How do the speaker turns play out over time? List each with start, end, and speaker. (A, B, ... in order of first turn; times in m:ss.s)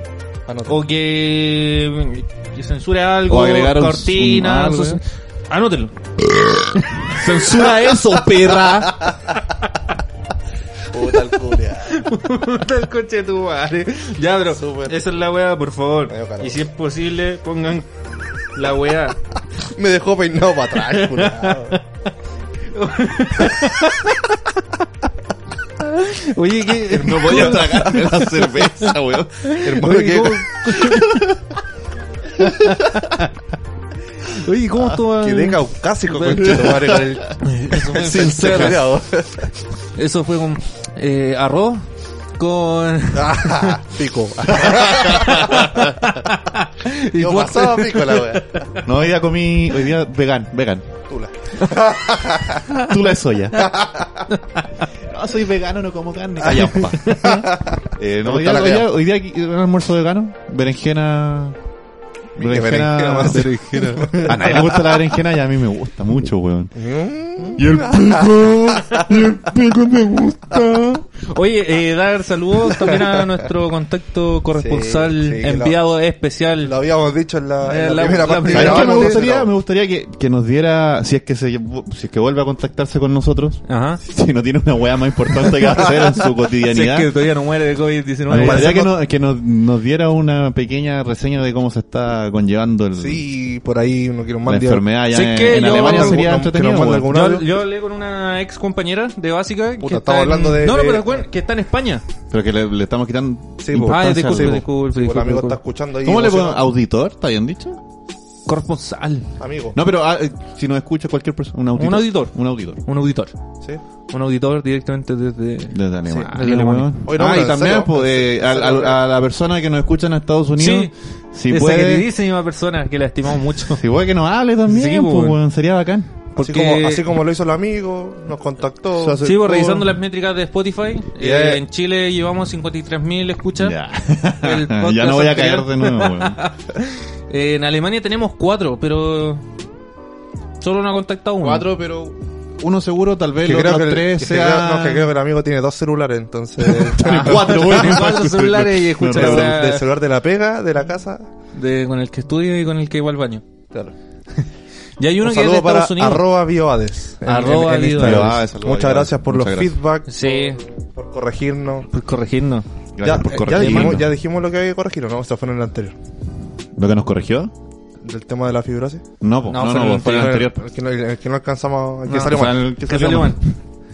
0:00.5-0:00.8 A
0:00.7-0:05.9 B
0:03.3-0:05.0 C
0:06.2-0:09.2 C
0:06.9-0:08.8 B
0:10.9-0:12.1 A
0:11.1-0:17.9 B
0:14.5-0:15.0 A
0:16.1-0:16.6 A
0:18.5-0:19.2 B
0:19.7-0:21.8 A
0:20.8-0:21.8 B
0:22.7-0:24.4 B
0:25.8-0:31.4 B
0:26.9-0:29.6 C
0:27.1-0:27.7 A
0:29.6-0:30.5 A
0:30.7-0:31.4 C
0:32.3-0:33.3 B
0:32.4-0:33.1 C
0:34.2-0:38.8 B
0:35.0-0:39.5 A
0:36.4-0:37.2 C
0:37.9-0:38.9 C
0:39.9-0:41.8 B
0:42.4-0:43.8 B
0:43.1-0:45.9 A
0:44.6-0:48.4 B
0:44.6-0:45.8 C
0:47.1-0:48.7 A
0:48.8-0:50.9 C
0:51.1-0:52.7 A
0:52.7-0:53.7 C
0:53.6-0:54.2 A
0:54.3-0:54.8 B
0:54.9-1:01.6 C
0:56.6-0:58.9 A
0:57.0-0:57.4 B
1:02.4-1:03.6 C
1:02.4-1:05.0 A
1:03.2-1:04.6 B
1:04.2-1:06.7 C
1:06.7-1:08.3 A
1:07.6-1:10.9 C
1:10.3-1:16.7 B
1:14.6-1:15.8 A
1:16.6-1:19.5 A
1:17.6-1:19.2 B
1:18.5-1:27.1 C
1:23.7-1:24.0 B
1:26.7-1:28.9 B
1:28.3-1:28.8 A
1:28.3-1:33.2 C
1:33.0-1:34.9 A
1:34.4-1:37.1 C
1:35.1-1:36.2 B
1:35.5-1:37.5 A
1:37.0-1:42.0 B
1:39.8-1:41.2 A
1:42.3-1:44.6 C
1:43.6-1:46.6 A
1:43.8-1:45.6 B
1:46.0-1:47.8 C
1:48.5-1:49.4 B
1:49.4-1:49.8 A
1:49.7-1:52.8 C
1:51.8-1:53.3 B
1:54.1-1:56.9 B
1:55.7-2:02.0 C
1:57.0-1:59.0 A
2:00.6-2:00.9 B
2:01.5-2:03.8 B
2:03.7-2:06.1 C
2:04.6-2:05.4 B
2:06.4-2:07.0 B
2:06.4-2:09.8 A
2:09.0-2:09.8 C
2:09.2-2:13.8 B
2:11.2-2:11.6 A
2:13.6-2:16.4 C
2:14.4-2:19.5 B
2:20.6-2:21.7 B
2:21.4-2:25.0 C
2:23.4-2:28.0 A
2:26.6-2:29.6 C
2:27.0-2:29.8 B
2:29.0-2:31.3 A
2:31.5-2:33.4 B
2:35.0-2:36.2 B
2:35.2-2:41.9 A
2:37.2-2:38.4 B
2:38.0-2:39.8 C
2:40.1-2:40.6 B
2:41.9-2:42.6 B
2:43.0-2:44.1 C
2:43.0-2:45.9 A
2:43.5-2:44.0 B
2:46.8-2:47.5 C
2:48.0-2:49.0 A
2:49.2-2:50.6 C
2:49.5-2:50.4 B
2:49.8-2:53.1 A
2:52.1-2:53.4 B
2:52.8-2:53.3 C